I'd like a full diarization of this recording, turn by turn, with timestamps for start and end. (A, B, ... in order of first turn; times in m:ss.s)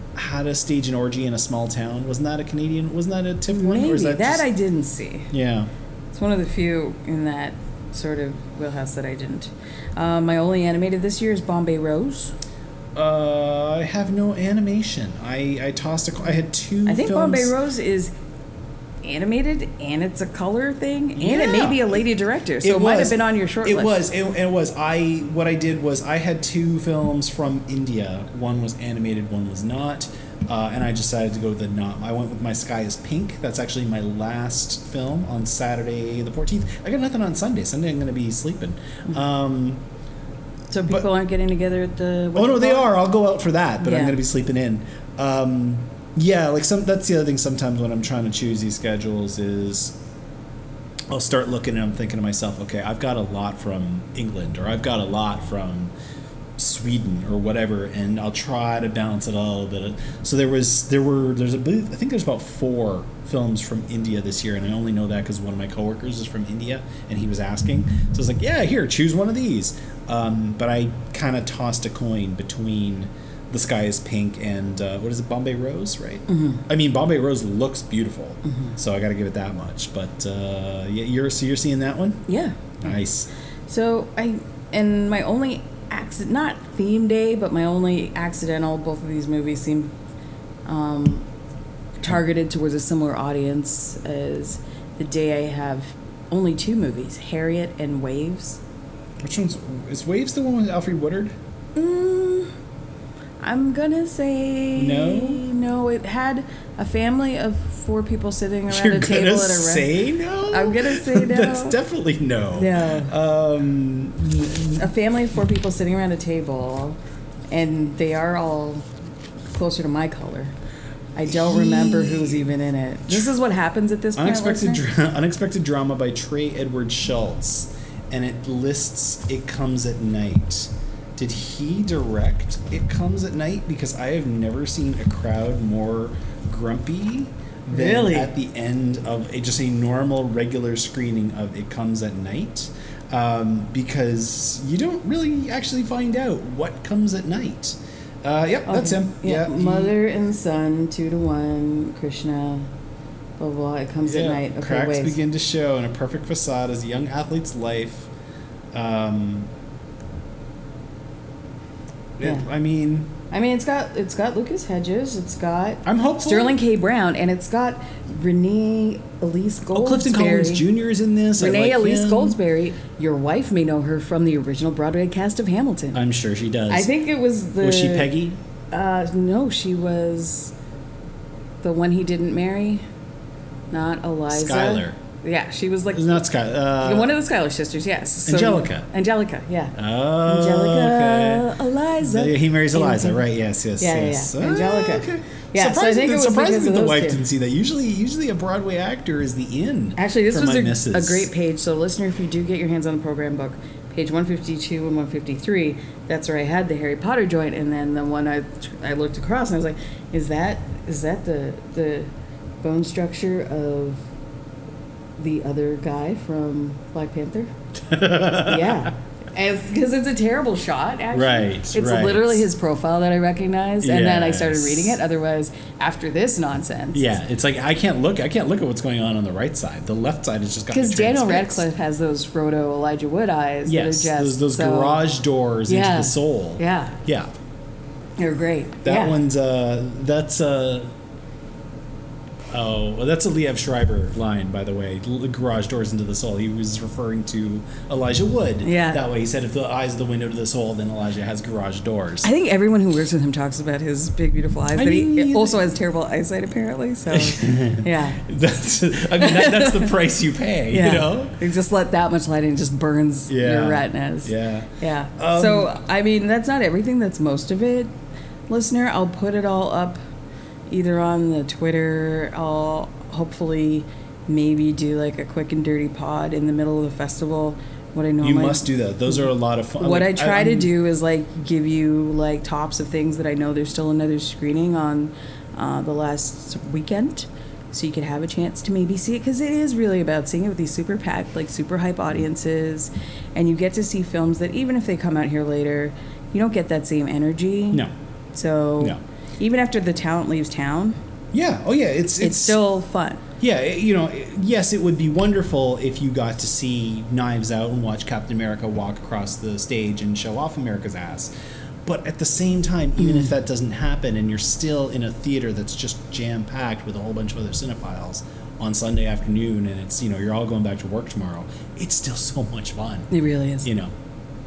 0:00.2-0:04.4 A
0:03.5-0:05.3 B
0:05.3-0:05.7 A
0:06.1-0:12.4 B
0:13.0-0:17.5 A
0:16.9-0:18.1 B
0:19.0-0:24.0 B
0:21.2-0:22.0 A
0:22.6-0:39.8 A
0:40.7-0:42.9 B
0:42.4-0:50.0 A
0:43.8-0:44.2 B
0:51.1-0:55.9 A
0:56.6-1:22.2 A
1:16.3-1:16.6 B
1:18.5-1:18.8 B
1:22.3-1:22.6 B
1:22.8-1:23.3 A
1:23.7-1:29.9 B
1:30.7-1:31.3 B
1:32.0-1:38.6 B
1:39.2-1:41.4 A
1:41.8-1:42.5 B
1:43.4-1:49.9 B
1:44.8-1:45.4 A
1:48.7-1:54.9 A
1:50.5-1:51.8 B
1:52.6-1:53.1 B
1:54.8-1:57.0 B
1:57.5-1:58.8 B
1:59.5-2:00.5 B
2:01.2-2:04.8 B
2:01.3-2:02.5 A
2:04.2-2:30.0 A
2:17.7-2:18.3 B
2:28.7-2:32.7 B
2:33.4-2:35.2 B
2:34.0-2:38.1 A
2:38.7-2:39.5 A
2:42.2-2:43.2 A
2:43.3-2:50.6 B
2:45.8-2:46.6 A
2:49.7-2:52.4 A
2:51.4-2:56.0 B
2:55.9-2:56.9 A
2:56.7-2:58.1 B
2:57.6-2:58.4 A
2:58.7-3:00.5 B
3:01.6-3:02.8 B
3:03.7-3:06.2 B
3:04.3-3:05.0 A
3:05.9-3:07.1 A
3:06.8-3:13.2 B
3:08.3-3:08.9 A
3:09.8-3:11.5 A
3:12.0-3:21.3 A
3:13.8-3:17.2 B
3:20.0-3:32.1 B
3:32.6-3:34.0 B
3:35.2-3:37.5 B
3:37.9-3:38.9 A
3:38.4-3:47.1 B
3:41.1-3:42.5 A
3:43.8-3:45.0 A
3:46.9-3:51.7 A
3:50.7-3:55.1 B
3:53.7-3:57.3 A
3:55.7-3:57.0 B
3:58.2-3:59.2 B
3:58.8-4:00.9 A
4:02.5-4:12.3 A
4:08.6-4:09.0 B
4:12.2-4:18.3 B
4:14.7-4:15.6 A
4:17.1-4:21.4 A
4:19.2-4:19.9 B
4:20.7-4:27.9 B
4:23.3-4:25.7 A
4:28.5-4:30.0 B
4:30.7-4:39.2 B
4:38.2-4:40.7 A
4:39.8-5:01.0 B
5:01.3-5:02.6 A
5:02.2-5:03.2 B
5:03.4-5:11.3 A
5:11.9-5:23.1 A
5:13.0-5:13.3 B
5:23.1-5:23.7 B
5:23.6-5:23.9 A